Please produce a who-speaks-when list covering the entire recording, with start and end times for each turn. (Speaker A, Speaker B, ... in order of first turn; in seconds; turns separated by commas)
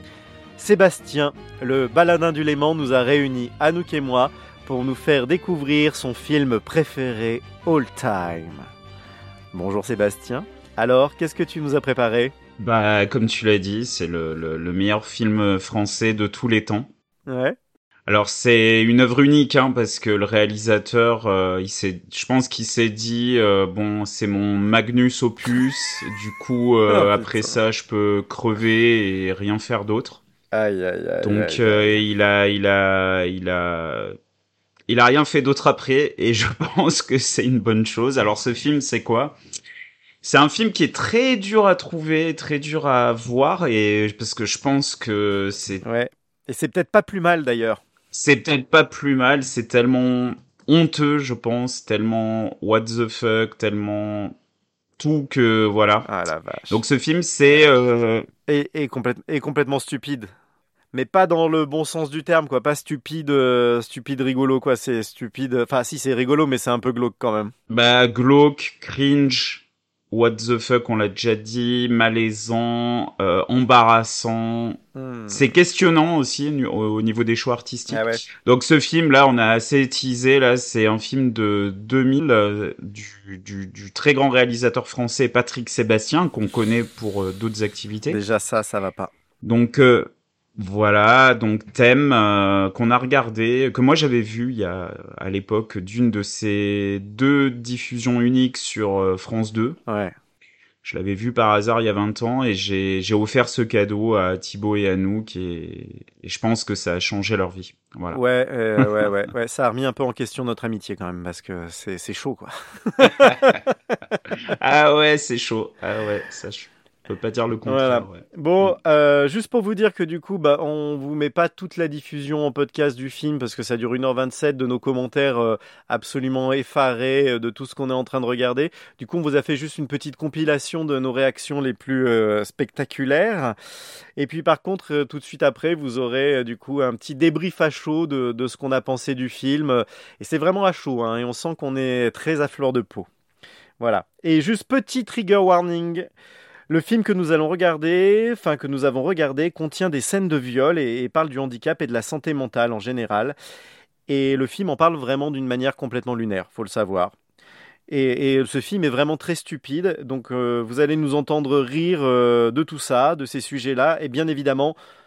Speaker A: 0.6-8.7, Speaker A: 9.5-12.3, Speaker B: 12.6-16.9, Speaker A: 17.3-17.6, Speaker B: 18.1-30.2, Speaker A: 26.9-27.6, Speaker A: 30.5-32.0, Speaker B: 31.2-34.2, Speaker B: 34.9-39.4, Speaker B: 40.2-45.8, Speaker A: 45.8-47.8, Speaker B: 48.1-54.4, Speaker B: 55.0-56.1, Speaker A: 56.0-56.8, Speaker B: 56.7-58.3, Speaker A: 58.5-60.3, Speaker A: 60.9-67.5, Speaker B: 67.7-88.2, Speaker A: 74.9-75.5, Speaker A: 77.9-78.2, Speaker A: 88.1-89.1, Speaker B: 89.4-99.8, Speaker A: 99.9-100.2, Speaker B: 100.8-108.2, Speaker A: 108.1-114.1, Speaker B: 113.0-113.6, Speaker B: 114.3-118.2, Speaker A: 117.7-133.6, Speaker A: 134.2-143.1, Speaker A: 143.8-146.1, Speaker A: 146.7-153.4, Speaker A: 154.1-157.2, Speaker A: 157.9-164.8